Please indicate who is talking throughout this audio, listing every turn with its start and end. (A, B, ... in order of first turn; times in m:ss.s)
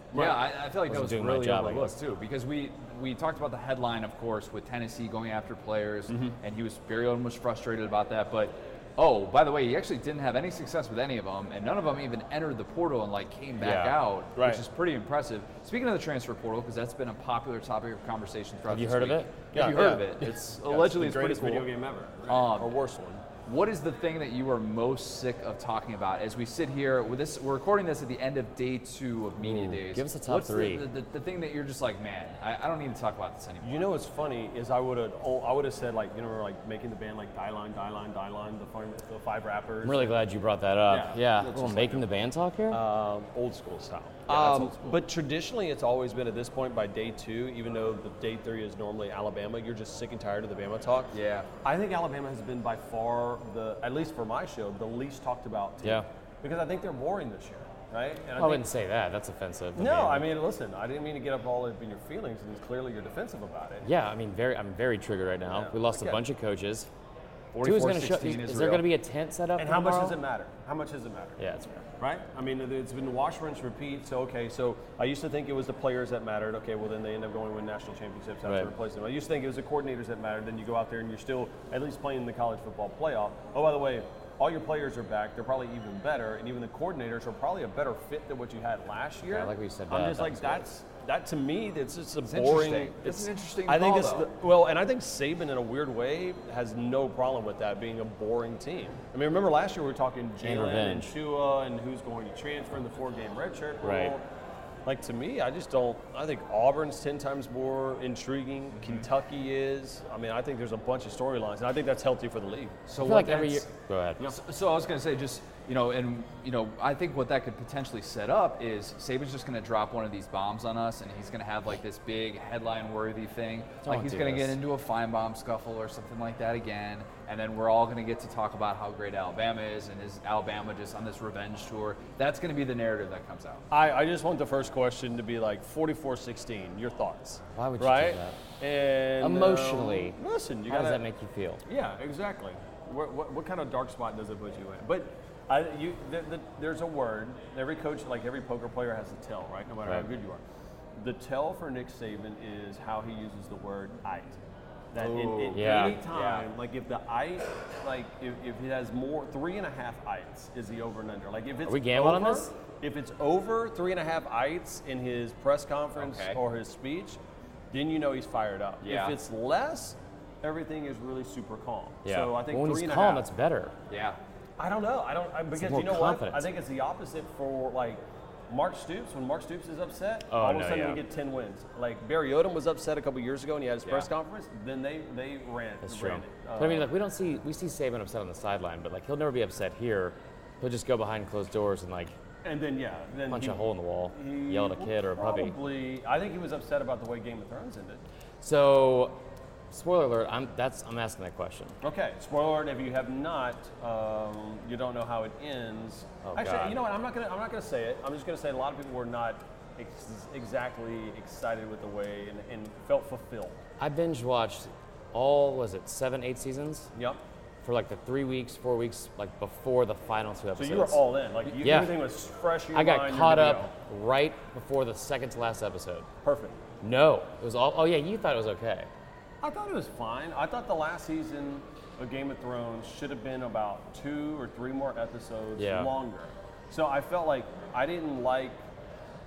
0:00.1-0:00.4 A
0:00.1-0:21.7 B
0:00.9-0:02.0 C
0:06.1-0:06.4 A
0:13.6-0:14.0 C
0:14.4-0:14.6 A
0:18.7-0:19.3 C
0:19.5-0:23.2 A
0:22.3-0:22.8 B
0:23.4-0:33.9 B
0:29.4-0:30.9 C
0:33.6-0:40.2 A
0:39.8-0:42.8 C
0:40.9-0:42.1 A
0:42.7-0:58.7 A
0:44.3-0:45.0 B
0:51.1-0:51.5 B
0:58.4-1:00.3 C
0:59.8-1:03.9 A
1:03.8-1:06.9 C
1:05.5-1:06.2 A
1:07.5-1:08.9 B
1:07.6-1:10.2 C
1:09.6-1:11.4 A
1:11.4-1:11.8 C
1:12.0-1:44.2 A
1:18.4-1:18.7 C
1:29.2-1:30.7 C
1:32.2-1:34.3 B
1:40.4-1:41.1 C
1:43.8-1:44.2 C
1:44.9-1:52.8 A
1:48.8-1:49.1 B
1:52.9-1:53.7 B
1:53.0-1:54.2 C
1:54.3-2:13.6 B
2:03.8-2:04.6 C
2:13.7-2:21.0 A
2:17.5-2:18.4 C
2:19.2-2:20.2 C
2:20.7-2:21.6 C
2:21.6-2:30.4 A
2:31.0-2:34.4 A
2:34.9-2:47.2 A
2:35.0-2:36.4 B
2:35.5-2:36.0 C
2:41.7-2:42.5 C
2:46.0-2:46.4 B
2:47.7-2:53.3 A
2:48.8-2:49.2 B
2:52.0-2:53.8 C
2:53.9-2:54.2 B
2:54.6-3:06.9 A
2:55.5-2:56.5 C
3:00.3-3:01.0 C
3:03.8-3:04.1 B
3:05.8-3:12.2 C
3:12.4-3:18.0 A
3:13.3-3:15.6 C
3:18.4-3:19.2 C
3:19.7-3:21.8 C
3:21.8-3:33.6 A
3:26.2-3:26.8 C
3:33.8-3:36.9 C
3:36.9-3:37.2 A
3:37.6-3:41.0 C
3:40.6-3:43.7 A
3:41.6-3:42.0 C
3:42.7-3:46.1 C
3:46.2-3:46.6 A
3:46.8-3:48.9 C
3:49.4-3:58.6 A
3:55.6-3:55.9 C